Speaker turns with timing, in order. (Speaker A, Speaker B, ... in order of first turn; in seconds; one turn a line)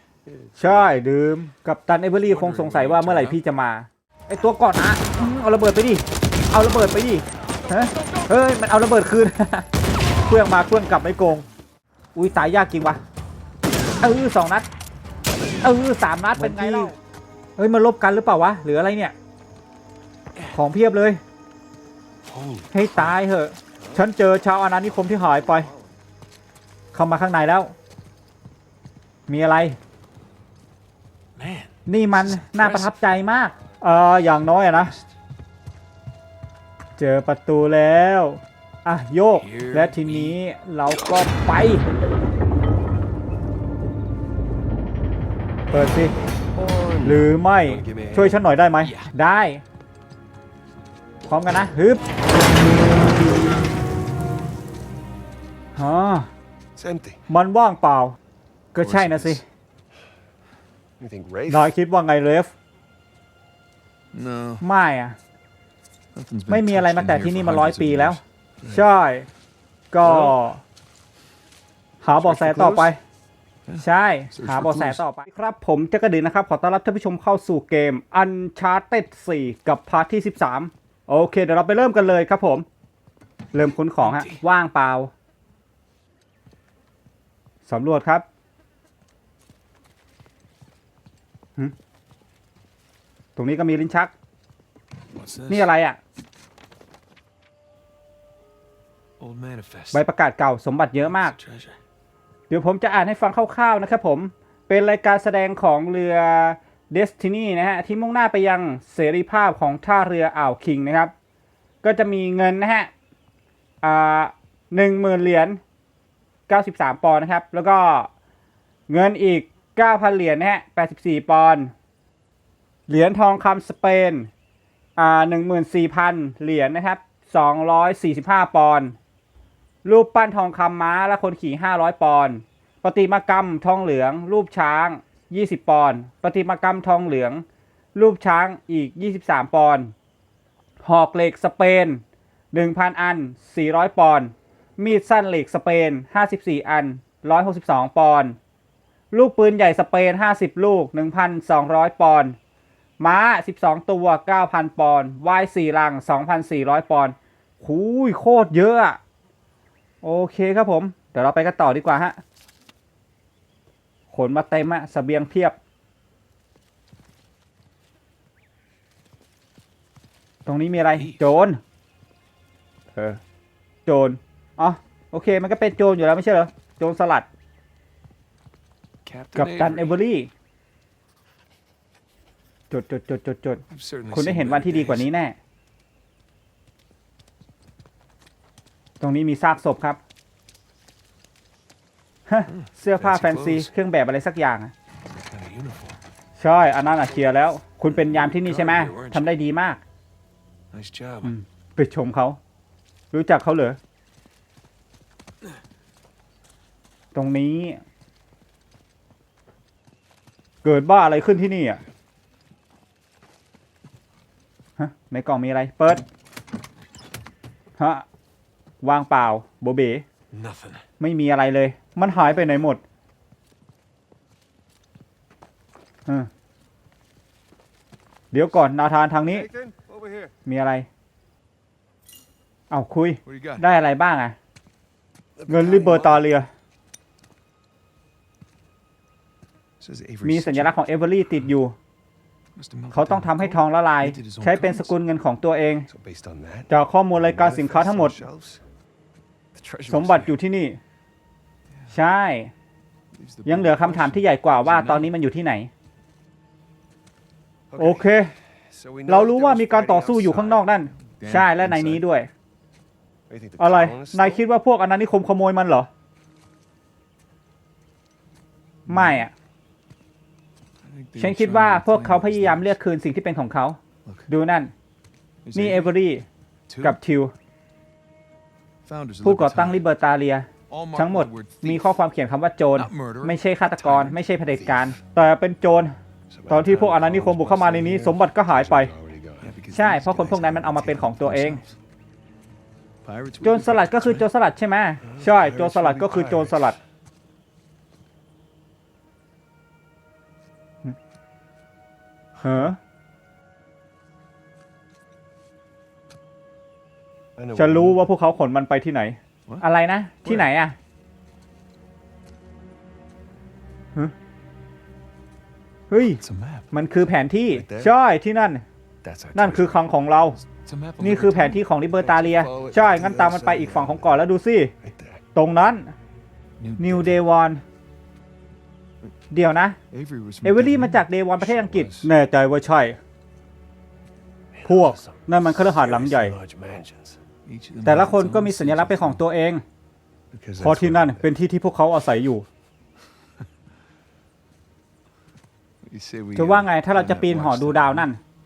Speaker A: 0.3-0.9
Speaker B: 0.6-9.6
Speaker C: 2.3-3.4
Speaker B: 10.3-11.5
Speaker B: 12.1-13.0
Speaker B: 14.0-14.7
Speaker B: 15.6-16.9
Speaker C: 16.4-16.9
Speaker B: 17.6-19.1
Speaker B: 20.5-21.2
Speaker C: 22.2-23.1
Speaker B: 22.7-25.7
Speaker A: 25.3-25.9
Speaker B: 26.9-27.7
Speaker B: 29.3-29.8
Speaker C: 31.4-31.7
Speaker B: 31.9-35.0
Speaker C: 32.3-32.9
Speaker B: 37.0-41.8
Speaker C: 39.4-40.4
Speaker B: 45.7-46.1
Speaker A: 46.4-48.4
Speaker B: 47.0-49.6
Speaker B: 51.3-52.0
Speaker B: 55.8-56.3
Speaker A: 56.8-57.2
Speaker B: 57.3-58.2
Speaker B: 58.7-59.4
Speaker C: 58.8-59.4
Speaker A: 61.0-61.7
Speaker B: 61.5-62.5
Speaker C: 64.1-64.6
Speaker B: 64.6-65.2
Speaker C: 66.1-68.8
Speaker B: 66.5-69.3
Speaker B: 69.9-70.6
Speaker C: 70.0-70.3
Speaker B: 72.0-73.0
Speaker C: 72.2-72.9
Speaker C: 73.7-75.0
Speaker B: 73.8-82.7
Speaker B: 83.5-85.1
Speaker C: 84.0-84.4
Speaker B: 87.7-88.2
Speaker B: 93.3-94.1
Speaker C: 95.1-95.7
Speaker B: 95.5-96.0
Speaker C: 99.2-100.0
Speaker B: 99.9-101.3
Speaker C: 101.0-101.8
Speaker B: 102.5-111.1
Speaker B: 111.8-112.9
Speaker B: 113.8-115.6
Speaker B: 116.5-118.1
Speaker B: 118.9-121.7
Speaker B: 122.9-124.3
Speaker B: 125.0-129.0
Speaker B: 129.8-137.4
Speaker B: 137.9-139.9
Speaker B: 140.8-148.3
Speaker B: 149.1-152.3
Speaker B: 153.0-159.0
Speaker B: 160.0-162.2
Speaker B: 164.1-165.6
Speaker B: 170.4-171.6
Speaker C: 171.0-171.2
Speaker B: 172.9-173.2
Speaker B: 173.8-177.3
Speaker C: 179.0-180.0
Speaker B: 179.3-180.3
Speaker B: 182.7-185.3
Speaker C: 183.7-185.1
Speaker B: 189.0-190.0
Speaker B: 192.3-194.7
Speaker C: 192.5-193.7
Speaker C: 195.3-196.0
Speaker B: 196.4-199.8
Speaker C: 198.0-199.4
Speaker C: 200.7-201.3
Speaker B: 201.2-202.4
Speaker B: 203.1-203.8
Speaker B: 207.1-207.8
Speaker B: 210.6-211.8
Speaker B: 214.8-216.0
Speaker B: 217.8-218.0
Speaker B: 218.8-220.0
Speaker C: 220.3-220.8
Speaker B: 221.0-222.8
Speaker B: 228.3-229.5
Speaker A: 229.3-230.3
Speaker B: 230.4-230.9
Speaker B: 232.7-234.3
Speaker C: 233.2-233.6
Speaker A: 235.4-236.2
Speaker B: 235.5-236.5
Speaker C: 239.8-240.9
Speaker B: 240.2-241.7
Speaker C: 242.6-244.9
Speaker B: 242.9-245.9
Speaker A: 245.9-248.6
Speaker B: 246.7-248.2
Speaker C: 249.5-250.3
Speaker B: 249.9-250.8
Speaker B: 251.9-252.5
Speaker C: 253.1-255.1
Speaker B: 253.4-255.7
Speaker A: 257.7-258.1
Speaker B: 257.8-258.3
Speaker A: 258.7-260.6
Speaker B: 259.1-262.3
Speaker C: 260.7-262.0
Speaker A: 263.3-264.4
Speaker B: 263.6-265.9
Speaker B: 268.9-269.3
Speaker C: 268.9-269.2
Speaker C: 270.8-272.8
Speaker B: 271.2-274.7
Speaker C: 275.4-275.9
Speaker B: 275.5-276.2
Speaker C: 276.7-277.0
Speaker B: 276.8-277.3
Speaker C: 278.8-279.8
Speaker B: 279.2-285.9
Speaker C: 280.7-281.9
Speaker C: 282.7-284.2
Speaker A: 284.5-285.0
Speaker A: 286.3-289.5
Speaker B: 286.5-288.9
Speaker C: 289.4-291.7
Speaker B: 289.7-291.6
Speaker C: 293.0-294.3
Speaker B: 293.4-296.8
Speaker A: 295.0-296.8
Speaker B: 302.4-302.8
Speaker A: 307.4-308.0
Speaker B: 307.6-310.8
Speaker B: 315.9-318.6
Speaker C: 316.2-316.7
Speaker A: 317.5-317.9
Speaker A: 319.0-319.9
Speaker B: 319.3-320.4
Speaker C: 320.4-321.7
Speaker B: 321.0-324.7
Speaker A: 322.0-324.3
Speaker A: 324.8-325.2
Speaker B: 325.3-325.9
Speaker C: 326.6-327.2
Speaker B: 326.8-327.6
Speaker B: 329.3-329.8
Speaker C: 329.9-331.0
Speaker B: 330.4-333.0
Speaker A: 331.4-332.0
Speaker C: 331.7-332.1
Speaker A: 334.5-337.2
Speaker B: 334.6-336.3
Speaker C: 337.4-339.2
Speaker B: 337.8-339.6
Speaker A: 340.3-341.3
Speaker B: 340.6-342.4
Speaker C: 345.8-348.1
Speaker B: 346.3-348.2